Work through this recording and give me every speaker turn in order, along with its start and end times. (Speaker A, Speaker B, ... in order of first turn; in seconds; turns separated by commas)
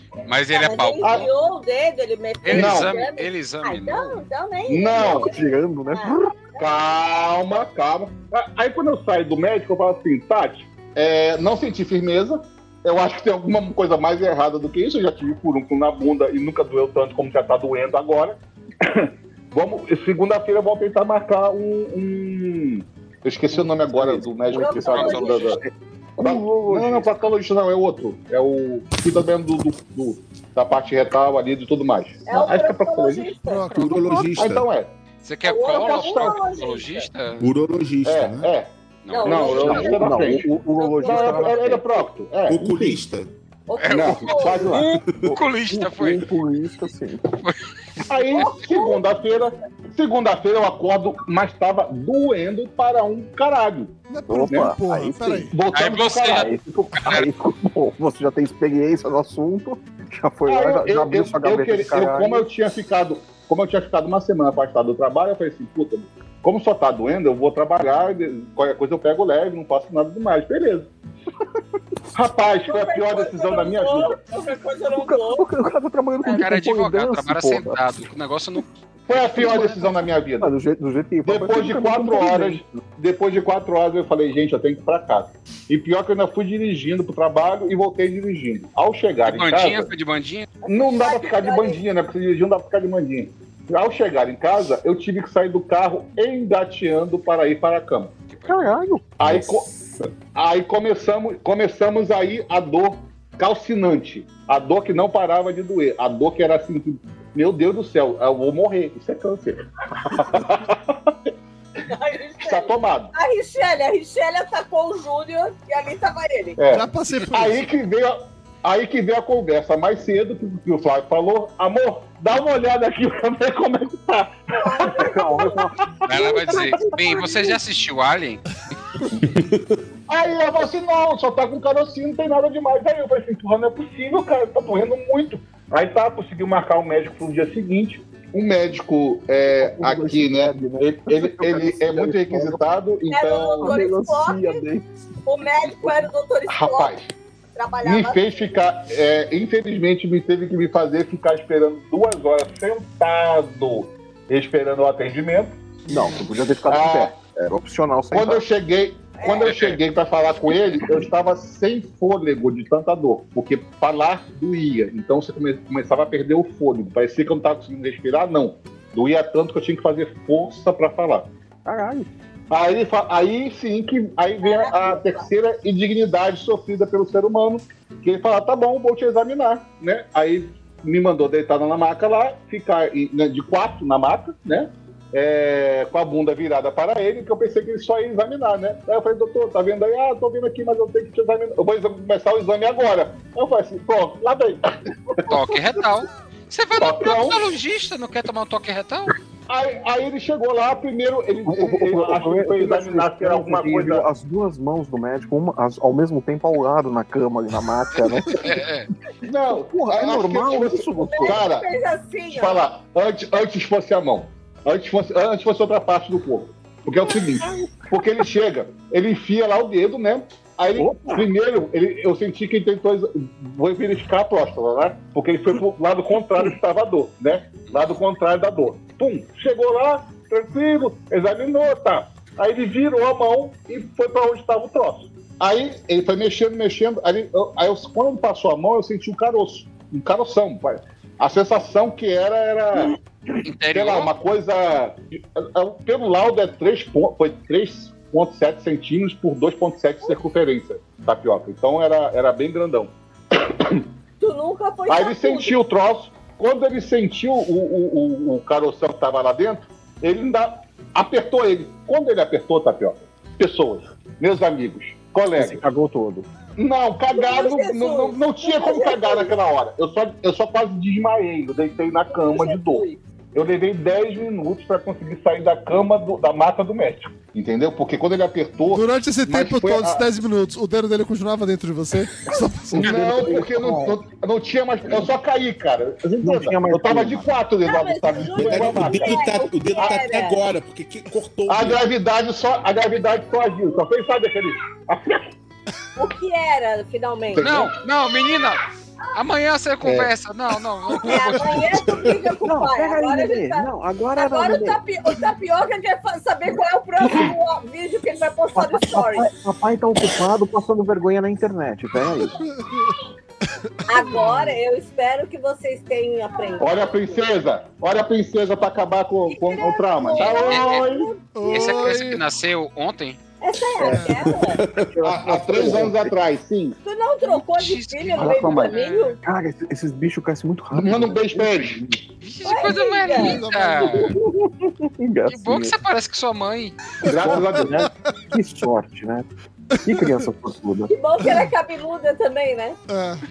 Speaker A: 0.2-1.3, Speaker B: 0.5-6.2, Speaker C: 1.0-1.3, Speaker A: 2.4-4.2, Speaker C: 2.5-2.9, Speaker C: 4.7-5.3, Speaker D: 5.0-6.3, Speaker C: 6.6-25.6, Speaker D: 23.5-27.1, Speaker B: 24.5-25.6, Speaker A: 24.9-25.5, Speaker C: 26.2-33.3, Speaker B: 32.2-34.0, Speaker E: 33.5-34.4, Speaker F: 33.7-34.7, Speaker C: 34.4-34.9, Speaker A: 35.2-37.5, Speaker B: 35.4-37.1, Speaker C: 35.8-36.4, Speaker F: 37.4-38.5, Speaker C: 38.0-38.7, Speaker A: 39.0-39.9, Speaker B: 39.1-41.9, Speaker C: 39.2-42.9, Speaker D: 39.5-41.8, Speaker F: 42.5-43.3, Speaker B: 43.7-45.1, Speaker A: 43.8-44.6, Speaker C: 43.9-45.0, Speaker D: 44.6-47.4, Speaker A: 45.2-46.3, Speaker C: 48.1-53.9, Speaker B: 48.2-49.1, Speaker E: 54.1-55.5, Speaker D: 54.3-55.5, Speaker C: 54.5-54.7, Speaker C: 55.5-56.5, Speaker A: 55.7-57.3, Speaker D: 56.3-62.5, Speaker C: 60.5-70.9, Speaker C: 72.1-74.2, Speaker B: 72.7-75.5, Speaker D: 74.9-78.0, Speaker A: 76.2-78.7, Speaker C: 79.1-80.5, Speaker D: 79.1-82.8, Speaker C: 81.2-89.9, Speaker A: 89.2-90.5, Speaker B: 90.6-91.8, Speaker C: 90.7-98.1, Speaker A: 98.3-98.8, Speaker D: 98.5-99.9, Speaker C: 99.2-99.7, Speaker C: 100.3-111.1, Speaker B: 111.9-116.6, Speaker C: 112.4-113.1, Speaker C: 116.6-125.1, Speaker E: 116.7-117.7, Speaker B: 124.5-125.7, Speaker D: 124.9-127.6, Speaker A: 126.0-128.4, Speaker C: 130.1-143.8, Speaker D: 139.5-142.6, Speaker B: 143.1-144.6, Speaker D: 143.6-144.9, Speaker B: 145.2-146.9, Speaker C: 146.5-147.1, Speaker B: 147.6-148.3, Speaker C: 147.8-155.5, Speaker D: 155.9-158.4, Speaker C: 156.7-157.1, Speaker C: 158.1-171.3, Speaker B: 159.2-159.6, Speaker A: 159.4-159.8, Speaker D: 171.6-172.1, Speaker C: 172.5-194.6, Speaker B: 174.4-175.3, Speaker A: 195.2-199.1, Speaker C: 196.8-197.4, Speaker C: 199.5-204.0, Speaker D: 201.4-208.6, Speaker A: 208.3-208.9, Speaker C: 209.2-211.7, Speaker D: 209.5-211.4, Speaker B: 211.0-212.6, Speaker C: 212.3-243.0, Speaker D: 217.1-217.9, Speaker D: 220.7-221.3, Speaker A: 243.4-244.1, Speaker C: 243.7-253.8, Speaker B: 254.2-255.6, Speaker C: 254.9-265.6, Speaker D: 265.3-266.3, Speaker C: 266.6-280.1, Speaker B: 267.1-269.3, Speaker B: 272.1-273.0, Speaker E: 278.7-283.1, Speaker D: 282.7-284.0, Speaker C: 282.7-289.2, Speaker D: 286.2-287.3, Speaker B: 287.6-290.4, Speaker F: 288.3-291.9, Speaker C: 291.5-295.3, Speaker B: 295.9-297.7, Speaker C: 297.3-297.7, Speaker A: 297.4-301.7, Speaker C: 299.8-300.1, Speaker B: 300.9-309.3, Speaker D: 302.4-304.8, Speaker D: 308.5-312.4, Speaker E: 312.6-312.9, Speaker B: 313.9-317.2, Speaker E: 313.9-314.6, Speaker C: 316.6-321.1, Speaker B: 319.3-321.8, Speaker A: 320.1-320.9, Speaker E: 321.3-322.2, Speaker A: 321.4-323.2, Speaker B: 323.4-324.6, Speaker D: 323.8-326.1, Speaker E: 323.9-324.3, Speaker F: 324.2-324.8, Speaker C: 325.0-326.8, Speaker B: 326.8-329.2, Speaker A: 327.2-329.2, Speaker C: 328.2-328.8, Speaker D: 329.2-332.0, Speaker C: 330.7-331.8, Speaker A: 332.2-334.1, Speaker B: 332.4-333.4, Speaker E: 333.1-334.1, Speaker D: 333.9-335.8, Speaker A: 335.3-336.8, Speaker D: 337.0-339.3, Speaker C: 337.0-337.9, Speaker E: 339.8-340.1, Speaker D: 339.8-340.9, Speaker B: 340.9-342.8, Speaker E: 342.9-343.2